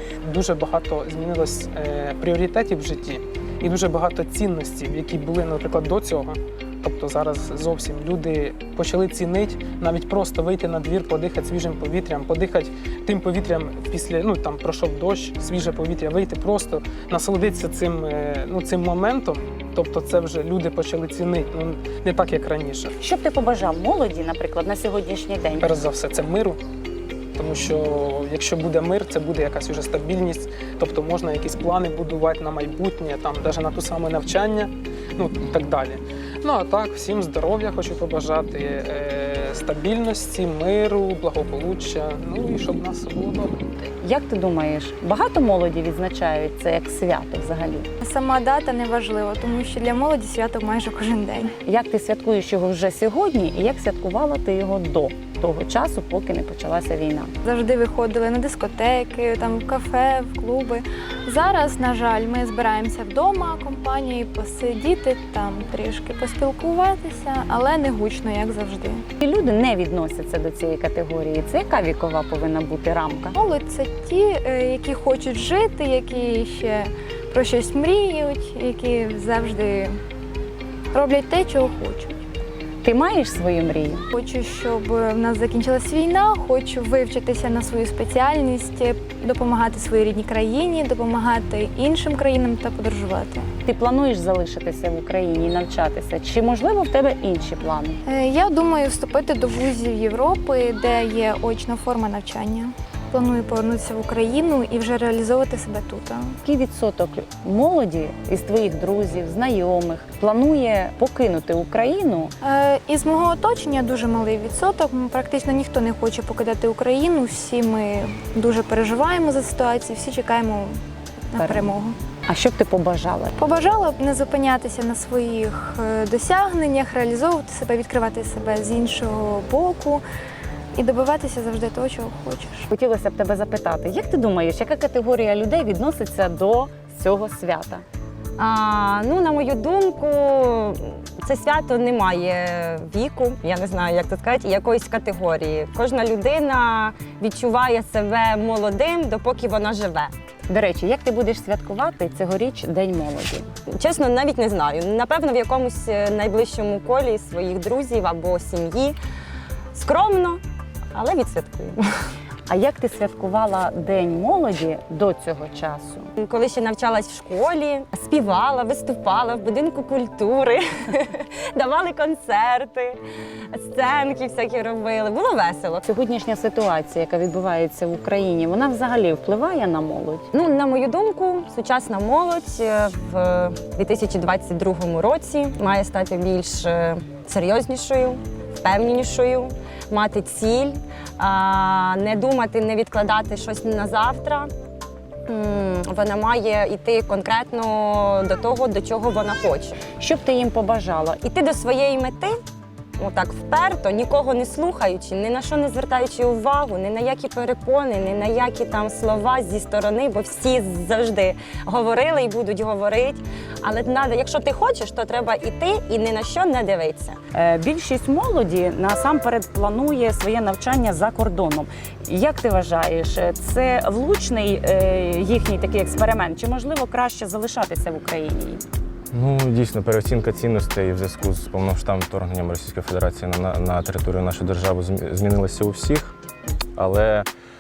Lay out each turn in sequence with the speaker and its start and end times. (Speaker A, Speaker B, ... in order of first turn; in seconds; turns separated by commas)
Speaker A: 0.2-22.9, Speaker B: 23.0-25.8, Speaker A: 25.6-26.6, Speaker A: 27.4-43.6, Speaker B: 44.0-47.9, Speaker C: 48.0-51.5, Speaker B: 51.7-57.3, Speaker C: 57.4-69.0, Speaker B: 69.2-73.3, Speaker C: 73.3-80.0, Speaker C: 80.9-82.2, Speaker B: 82.8-84.1, Speaker C: 84.1-93.5, Speaker B: 93.7-98.0, Speaker C: 98.1-106.3, Speaker B: 106.5-112.3, Speaker C: 112.4-120.8, Speaker C: 121.3-122.0, Speaker B: 121.4-121.7, Speaker B: 122.3-123.3, Speaker C: 123.4-130.0, Speaker C: 130.8-132.7, Speaker B: 132.7-137.8, Speaker D: 138.4-150.1, Speaker B: 150.5-153.5, Speaker D: 153.7-159.0, Speaker D: 159.7-160.4, Speaker D: 160.9-161.8, Speaker B: 162.5-166.1, Speaker D: 166.2-173.0, Speaker D: 173.5-175.8, Speaker B: 175.8-180.3, Speaker D: 180.3-194.5, Speaker D: 195.3-199.8, Speaker B: 200.0-201.2, Speaker D: 201.2-202.3, Speaker D: 203.0-217.2, Speaker B: 217.3-228.6, Speaker E: 229.1-236.2, Speaker E: 236.8-237.3